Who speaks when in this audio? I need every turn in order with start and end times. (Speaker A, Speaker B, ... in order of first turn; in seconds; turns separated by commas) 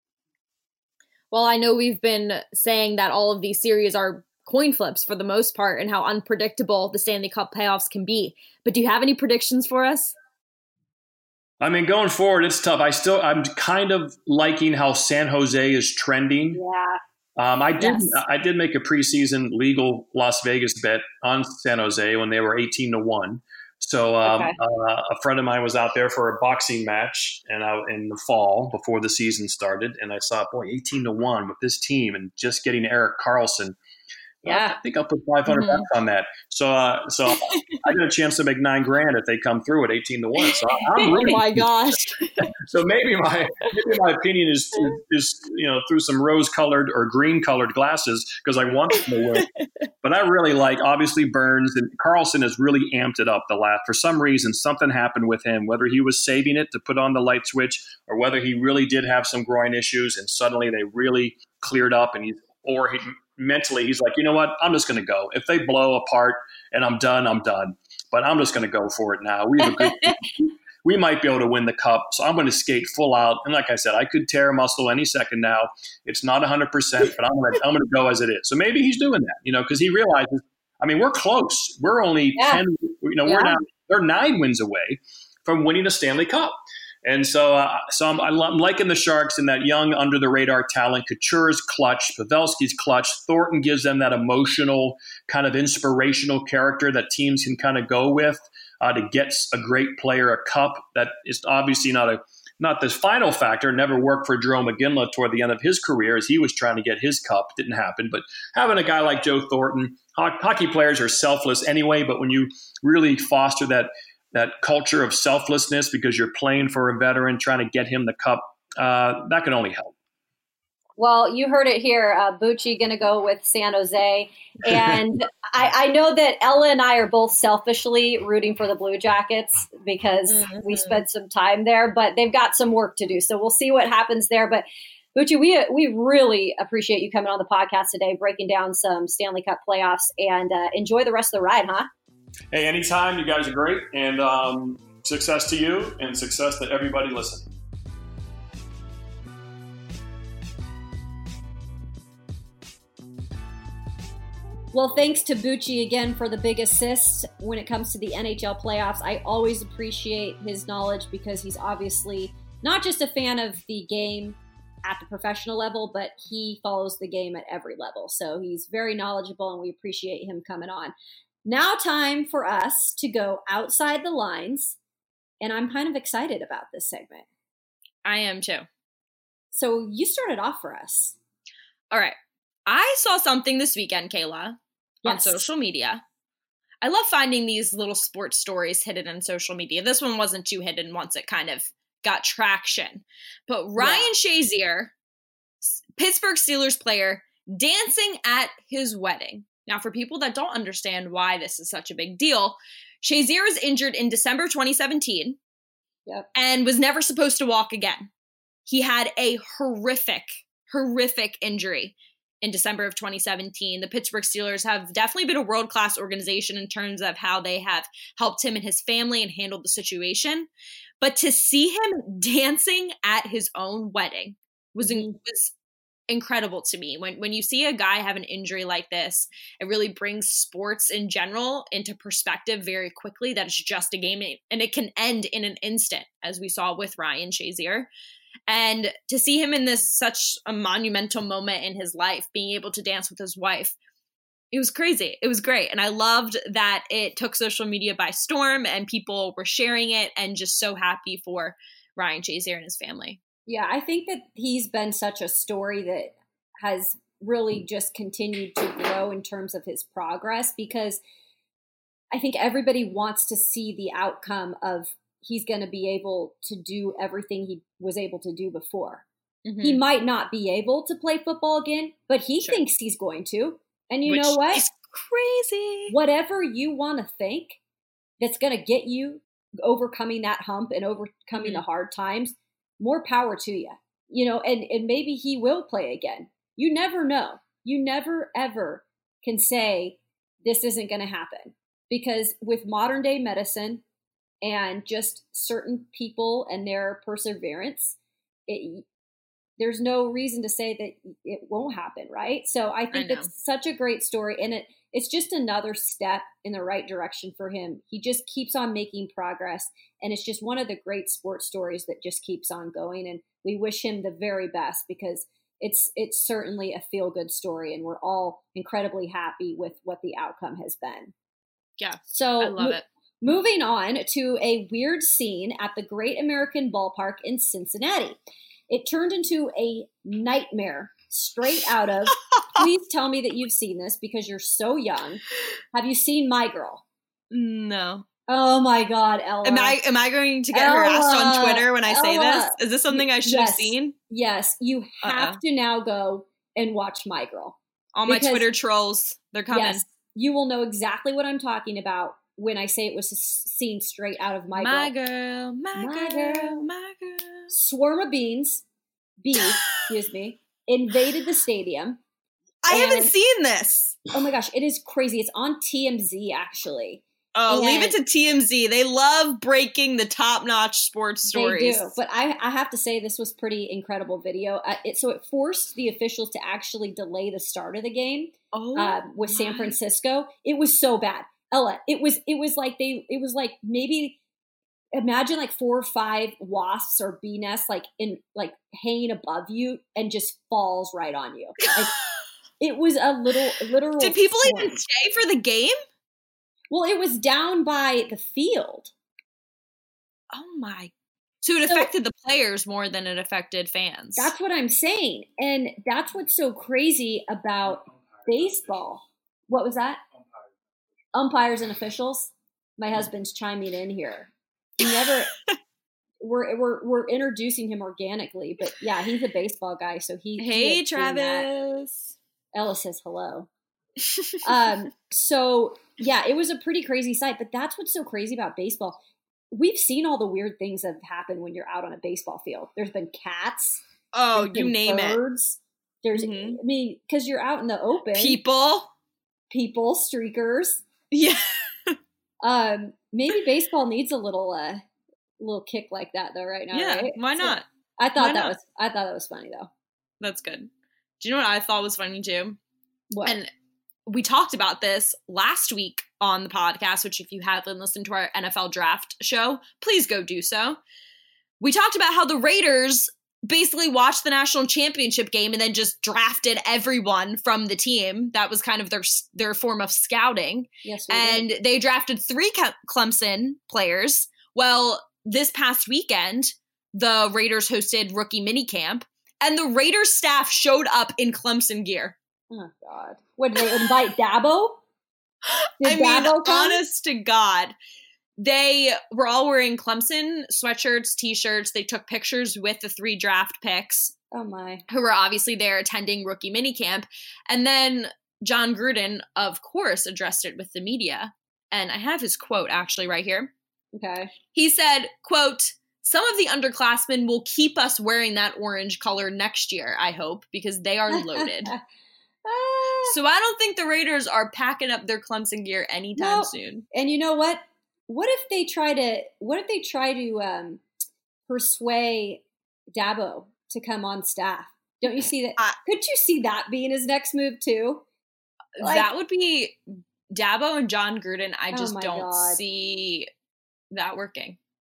Speaker A: 1.3-10.1, Speaker B: 11.6-16.6, Speaker C: 16.5-17.0, Speaker B: 17.4-33.8, Speaker C: 17.8-18.2, Speaker C: 24.2-24.6, Speaker B: 34.4-49.5, Speaker C: 34.4-34.8, Speaker A: 35.5-35.9, Speaker C: 40.9-42.1, Speaker B: 50.0-119.9, Speaker C: 82.3-82.6, Speaker C: 83.2-83.6, Speaker C: 121.0-141.9, Speaker A: 130.3-131.0, Speaker B: 142.5-147.5, Speaker C: 154.7-170.9, Speaker C: 171.4-174.8, Speaker C: 175.4-177.2, Speaker A: 178.0-178.7, Speaker C: 179.5-181.1, Speaker A: 181.9-182.2, Speaker A: 182.7-186.0, Speaker C: 185.0-185.4, Speaker A: 186.8-194.9, Speaker C: 193.8-194.1, Speaker A: 195.6-205.4, Speaker A: 206.3-208.1, Speaker A: 208.7-220.5, Speaker A: 221.0-225.5, Speaker C: 224.8-225.1, Speaker A: 226.1-237.9, Speaker A: 238.5-243.7, Speaker A: 244.5-253.2, Speaker C: 253.5-261.0, Speaker C: 262.1-269.0, Speaker A: 269.4-269.8, Speaker C: 269.6-274.6, Speaker A: 274.1-275.9, Speaker C: 275.9-277.6, Speaker C: 278.2-293.8, Speaker C: 294.4-297.9, Speaker C: 298.5-298.8, Speaker C: 299.6-321.1, Speaker A: 302.9-303.3, Speaker A: 321.8-322.8, Speaker C: 322.1-328.2, Speaker C: 328.7-335.2, Speaker C: 335.7-336.8, Speaker A: 337.3-338.0, Speaker C: 338.3-339.8, Speaker A: 339.4-343.9, Speaker C: 340.5-347.6, Speaker A: 345.0-345.4, Speaker A: 347.9-349.8, Speaker C: 348.1-348.4, Speaker C: 349.5-354.9, Speaker A: 354.5-357.5, Speaker C: 355.7-356.6, Speaker C: 357.5-358.6, Speaker C: 359.2-362.0, Speaker A: 359.4-359.8, Speaker A: 362.6-364.1, Speaker C: 362.7-363.1, Speaker C: 364.1-367.9, Speaker A: 367.3-371.9, Speaker C: 371.3-384.2, Speaker A: 378.5-379.7, Speaker C: 384.9-391.9, Speaker C: 392.6-394.8, Speaker A: 394.0-395.8, Speaker C: 396.7-398.9, Speaker A: 400.3-400.9, Speaker A: 401.4-404.3, Speaker C: 404.1-410.0, Speaker C: 411.1-415.3, Speaker C: 416.2-421.5, Speaker A: 420.4-422.1, Speaker C: 422.5-423.5, Speaker C: 424.4-429.0, Speaker C: 429.5-433.8, Speaker A: 434.1-435.2, Speaker C: 434.3-438.4, Speaker A: 436.1-436.6, Speaker A: 438.1-438.9, Speaker C: 439.5-440.8, Speaker A: 441.1-442.0, Speaker C: 442.4-444.8, Speaker C: 445.4-449.7, Speaker A: 446.7-447.6, Speaker A: 448.2-448.5, Speaker A: 450.2-452.6, Speaker C: 453.1-453.4, Speaker A: 454.1-460.8, Speaker A: 461.6-482.1, Speaker C: 470.8-471.4, Speaker C: 482.5-484.8, Speaker A: 485.5-487.7, Speaker C: 485.8-486.8, Speaker A: 488.4-494.1, Speaker C: 494.3-494.8, Speaker A: 494.9-503.5, Speaker C: 503.9-504.3, Speaker A: 504.5-511.7, Speaker C: 511.1-511.8, Speaker C: 512.5-513.1, Speaker A: 513.1-516.9, Speaker C: 516.2-520.8, Speaker C: 521.5-522.4, Speaker C: 522.9-528.0, Speaker A: 528.8-533.3, Speaker C: 528.8-529.1, Speaker C: 531.7-532.6, Speaker A: 533.9-534.6